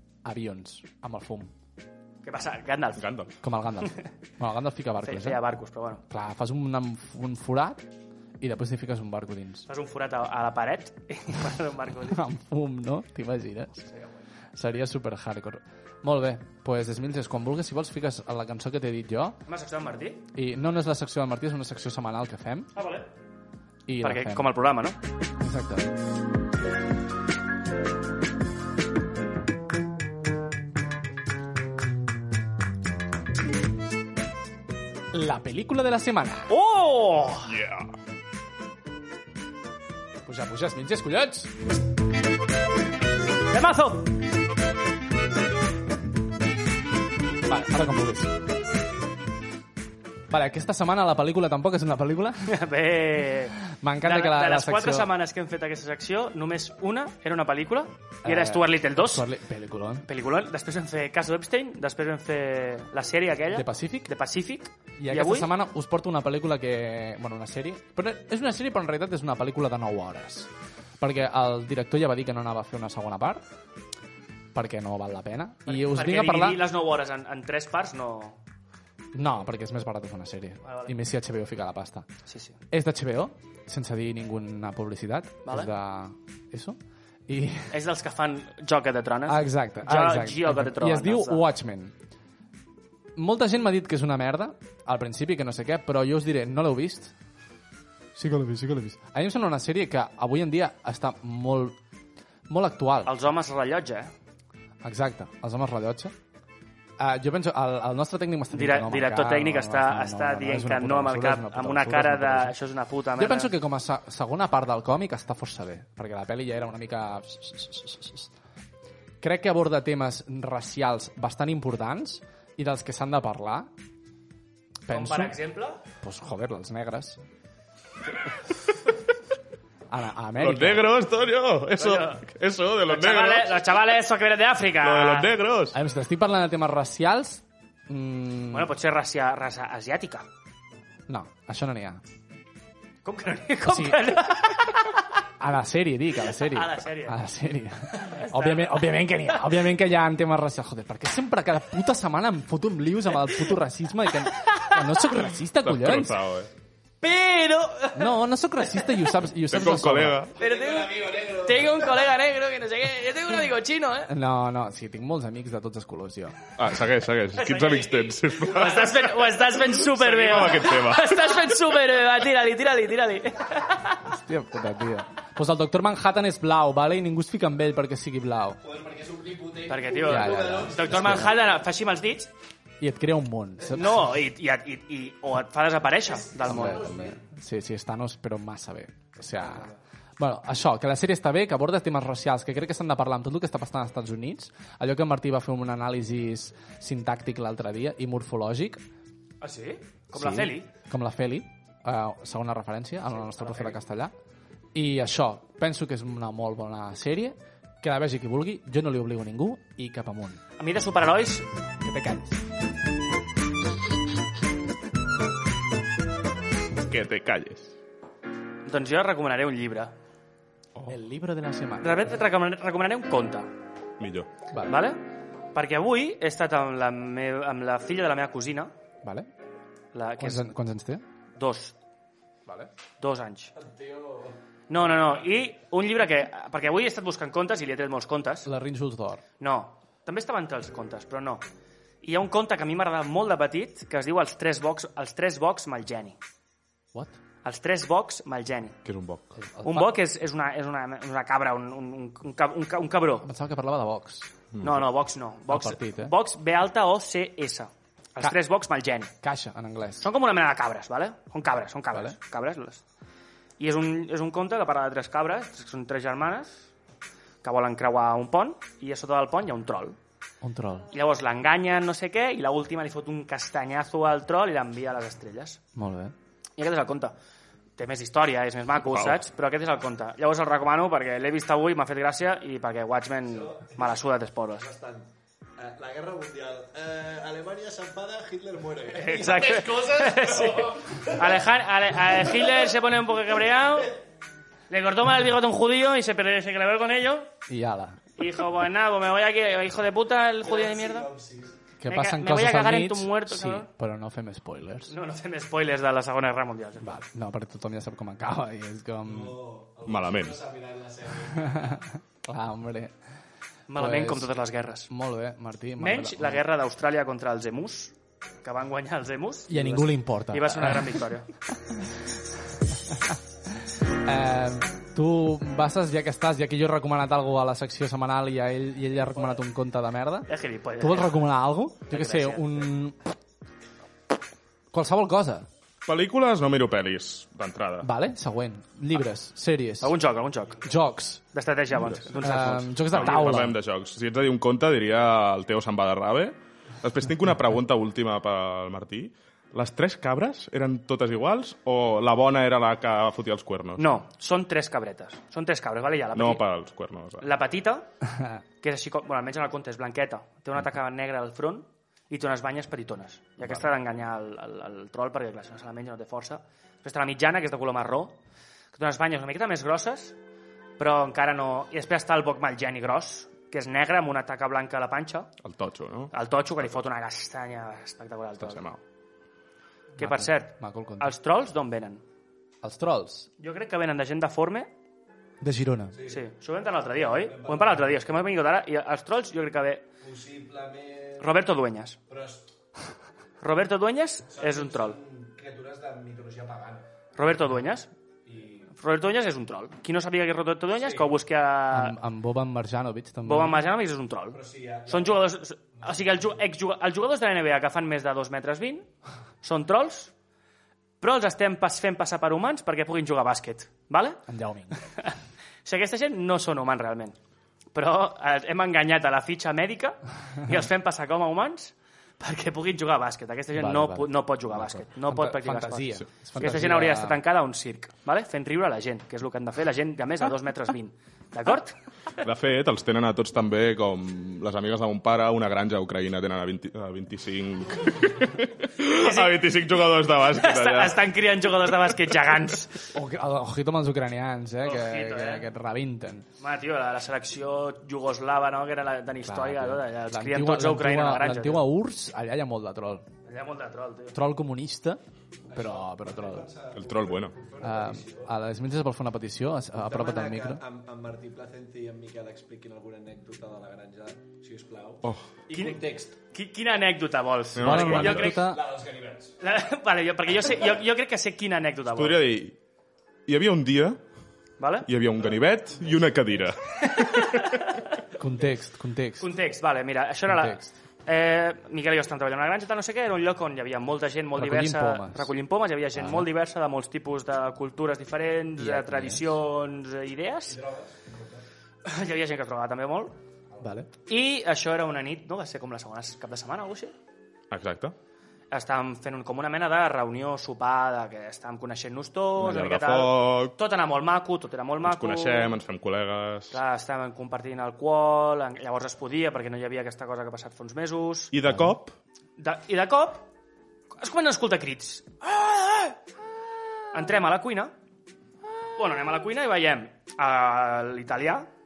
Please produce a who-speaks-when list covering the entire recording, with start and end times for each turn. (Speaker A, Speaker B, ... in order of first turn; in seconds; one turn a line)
Speaker A: 0.2-1.5
Speaker B: 2.2-3.0
Speaker C: 3.0-3.3
Speaker A: 3.4-5.4
Speaker B: 5.0-6.0
Speaker A: 6.1-7.8
Speaker A: 8.4-9.7
Speaker B: 9.7-12.2
Speaker A: 12.0-13.9
Speaker A: 14.5-19.4
Speaker B: 19.4-20.2
Speaker A: 20.3-22.7
Speaker B: 22.7-23.1
Speaker A: 23.9-24.5
Speaker B: 24.0-25.0
Speaker A: 25.4-25.9
Speaker A: 35.1-36.5
Speaker B: 36.5-37.5
Speaker C: 37.4-37.9
Speaker A: 40.2-41.5
Speaker B: 43.5-44.1
Speaker A: 47.5-48.4
Speaker A: 50.3-52.6
Speaker B: 52.5-59.2
Speaker A: 53.6-55.1
Speaker A: 58.2-60.1
Speaker B: 60.1-65.5
Speaker A: 63.5-64.1
Speaker A: 65.0-73.4
Speaker A: 74.5-76.7
Speaker B: 75.7-78.4
Speaker A: 79.1-82.1
Speaker B: 80.6-80.9
Speaker B: 82.2-82.6
Speaker A: 82.7-87.8
Speaker B: 85.4-85.7
Speaker B: 87.7-91.4
Speaker A: 89.3-92.0
Speaker A: 93.2-97.1
Speaker A: 98.1-101.8
Speaker A: 102.5-103.1
Speaker B: 103.0-104.1
Speaker A: 104.8-106.1
Speaker A: 107.0-112.5
Speaker B: 108.5-113.5
Speaker A: 113.2-118.3
Speaker A: 119.2-123.7
Speaker A: 124.8-125.3
Speaker B: 124.9-125.8
Speaker A: 126.0-127.2
Speaker A: 129.9-130.9
Speaker C: 130.4-133.6
Speaker B: 131.8-132.2
Speaker B: 132.9-135.3
Speaker C: 134.8-135.8
Speaker A: 135.7-138.7
Speaker B: 138.5-140.2
Speaker A: 141.1-142.0
Speaker B: 143.0-144.9
Speaker A: 143.7-144.2
Speaker A: 145.4-156.2
Speaker B: 146.3-147.2
Speaker B: 147.9-148.9
Speaker B: 154.4-154.8
Speaker C: 155.6-156.5
Speaker B: 157.0-158.2
Speaker A: 157.9-160.3
Speaker C: 159.5-160.3
Speaker D: 160.3-162.1
Speaker B: 160.3-164.1
Speaker A: 164.1-166.4
Speaker C: 166.6-169.1
Speaker B: 167.3-174.0
Speaker C: 169.7-171.2
Speaker A: 174.0-178.6
Speaker D: 178.6-181.4
Speaker B: 179.7-182.3
Speaker A: 180.1-181.3
Speaker A: 182.8-184.1
Speaker B: 183.7-186.9
Speaker D: 186.1-187.2
Speaker A: 186.4-198.8
Speaker B: 199.4-200.7
Speaker A: 200.1-204.1
Speaker B: 203.2-203.8
Speaker A: 204.7-210.4
Speaker B: 210.6-211.5
Speaker A: 211.8-212.4
Speaker C: 216.8-217.7
Speaker B: 218.7-219.9
Speaker A: 220.9-222.2
Speaker B: 221.8-223.5
Speaker C: 224.0-224.3
Speaker A: 224.5-224.8
Speaker B: 224.7-225.0
Speaker B: 225.5-228.7
Speaker B: 229.9-230.5
Speaker A: 230.2-231.0
Speaker B: 231.3-231.8
Speaker B: 233.0-233.5
Speaker D: 233.5-234.4
Speaker B: 234.7-238.5
Speaker A: 238.4-239.2
Speaker B: 239.4-241.4
Speaker B: 242.0-246.2
Speaker B: 247.4-248.8
Speaker C: 248.8-249.4
Speaker A: 249.3-250.0
Speaker B: 249.6-253.3
Speaker A: 253.2-254.3
Speaker C: 254.5-254.8
Speaker B: 254.6-259.1
Speaker A: 255.5-256.1
Speaker A: 259.2-260.1
Speaker B: 260.0-262.8
Speaker B: 263.6-266.7
Speaker B: 267.4-270.0
Speaker A: 270.4-270.9
Speaker B: 270.9-275.6
Speaker A: 275.7-276.1
Speaker B: 276.6-277.1
Speaker B: 277.8-284.6
Speaker C: 278.8-279.2
Speaker D: 283.3-284.0
Speaker D: 284.6-291.5
Speaker B: 288.9-294.0
Speaker D: 292.1-292.7
Speaker B: 294.7-297.3
Speaker A: 297.5-298.0
Speaker B: 298.2-301.1
Speaker D: 300.4-301.6
Speaker A: 301.8-304.9
Speaker B: 301.9-303.7
Speaker B: 304.9-307.0
Speaker A: 306.8-309.4
Speaker D: 309.0-311.8
Speaker C: 309.9-310.4
Speaker A: 311.3-312.9
Speaker B: 313.7-314.9
Speaker A: 313.8-314.3
Speaker A: 314.9-316.4
Speaker B: 315.8-321.3
Speaker A: 319.5-321.9
Speaker A: 322.7-323.2
Speaker A: 324.0-330.3
Speaker B: 330.3-331.3
Speaker A: 330.8-333.0
Speaker B: 331.9-332.7
Speaker A: 334.7-335.5
Speaker C: 335.9-337.9
Speaker A: 337.8-339.9
Speaker B: 339.8-340.7
Speaker A: 340.6-341.2
Speaker B: 341.3-343.5
Speaker C: 341.7-342.2
Speaker A: 342.2-343.6
Speaker C: 342.9-353.9
Speaker B: 353.8-356.4
Speaker C: 356.1-357.3
Speaker B: 357.2-357.9
Speaker A: 358.0-358.4
Speaker B: 358.6-368.2
Speaker B: 368.7-370.2
Speaker B: 370.8-375.3
Speaker C: 375.4-376.1
Speaker B: 376.1-378.6
Speaker C: 378.4-378.8
Speaker A: 380.0-381.1
Speaker B: 380.0-382.0
Speaker A: 382.6-383.3
Speaker B: 383.4-384.7
Speaker A: 385.4-386.0
Speaker D: 385.9-386.3
Speaker B: 386.0-389.9
Speaker D: 386.9-388.1
Speaker D: 390.0-391.3
Speaker B: 391.2-392.0
Speaker D: 392.1-392.5
Speaker B: 393.4-395.0
Speaker D: 394.3-396.9
Speaker B: 397.1-397.9
Speaker D: 398.2-398.7
Speaker B: 398.8-402.0
Speaker D: 400.8-401.1
Speaker A: 401.7-403.6
Speaker B: 403.2-408.9
Speaker D: 404.3-406.4
Speaker B: 409.4-410.1
Speaker B: 411.0-414.2
Speaker A: 414.3-414.8
Speaker B: 414.8-417.1
Speaker B: 417.7-431.8
Speaker A: 423.6-427.2
Speaker C: 432.2-441.0
Speaker B: 438.9-439.4
Speaker B: 440.3-442.9
Speaker A: 442.9-446.3
Speaker B: 444.6-445.5
Speaker B: 446.4-451.7
Speaker A: 449.2-453.1
Speaker B: 453.2-454.1
Speaker A: 454.1-456.5
Speaker D: 455.5-458.3
Speaker C: 456.7-457.3
Speaker A: 457.6-460.6
Speaker D: 459.8-466.1
Speaker B: 465.5-468.5
Speaker C: 467.6-468.4
Speaker A: 467.6-468.6
Speaker D: 468.4-469.4
Speaker B: 469.4-472.2
Speaker C: 471.9-472.6
Speaker C: 473.3-474.0
Speaker B: 474.6-474.9
Speaker C: 474.9-477.4
Speaker D: 475.2-476.1
Speaker B: 476.8-477.8
Speaker A: 478.2-479.3
Speaker B: 479.2-490.6
Speaker A: 480.3-480.7
Speaker A: 484.3-485.3
Speaker A: 485.9-486.3
Speaker A: 488.6-489.3
Speaker D: 490.4-491.4
Speaker B: 491.8-493.1
Speaker A: 493.6-493.9
Speaker B: 494.1-496.9
Speaker C: 497.5-497.9
Speaker B: 498.5-505.6
Speaker C: 502.4-503.5
Speaker C: 504.8-506.6
Speaker B: 506.5-511.3
Speaker C: 511.3-511.9
Speaker B: 512.4-513.3
Speaker B: 514.0-516.0
Speaker B: 516.9-517.7
Speaker B: 518.8-521.5